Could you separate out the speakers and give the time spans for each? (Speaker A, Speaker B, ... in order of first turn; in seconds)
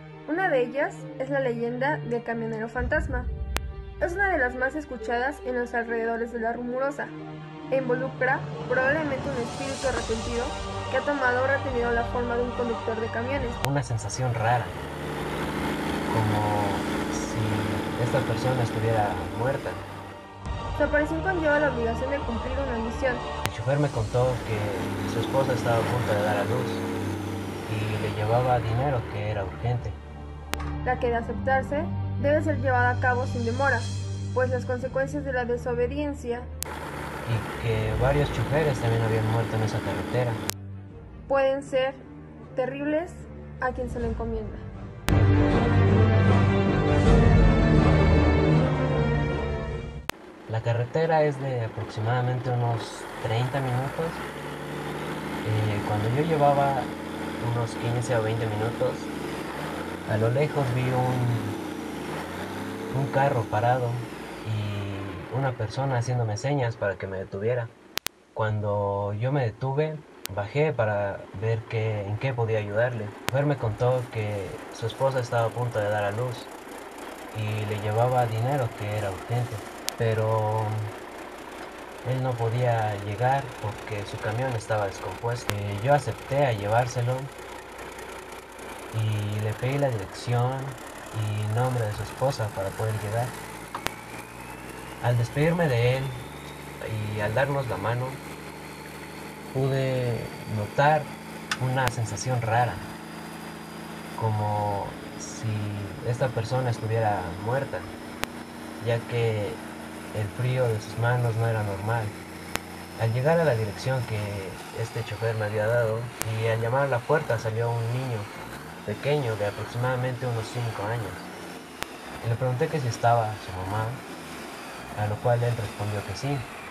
Speaker A: 0.2-3.3, 4.0-7.2, 7.7-13.6, 20.8-23.2, 30.8-36.5, 41.3-44.6
Speaker B: 13.6-14.8, 16.1-19.8, 23.4-26.9, 27.6-30.0, 37.2-40.4, 50.5-54.2, 55.4-59.1, 60.1-61.6, 62.9-67.7, 68.3-76.5, 77.3-80.9, 82.0-87.3, 88.9-93.4, 95.0-96.3, 96.8-98.2, 99.5-102.9, 104.1-107.9, 108.8-112.2, 113.0-118.3, 118.8-121.3, 122.2-124.0, 124.9-126.5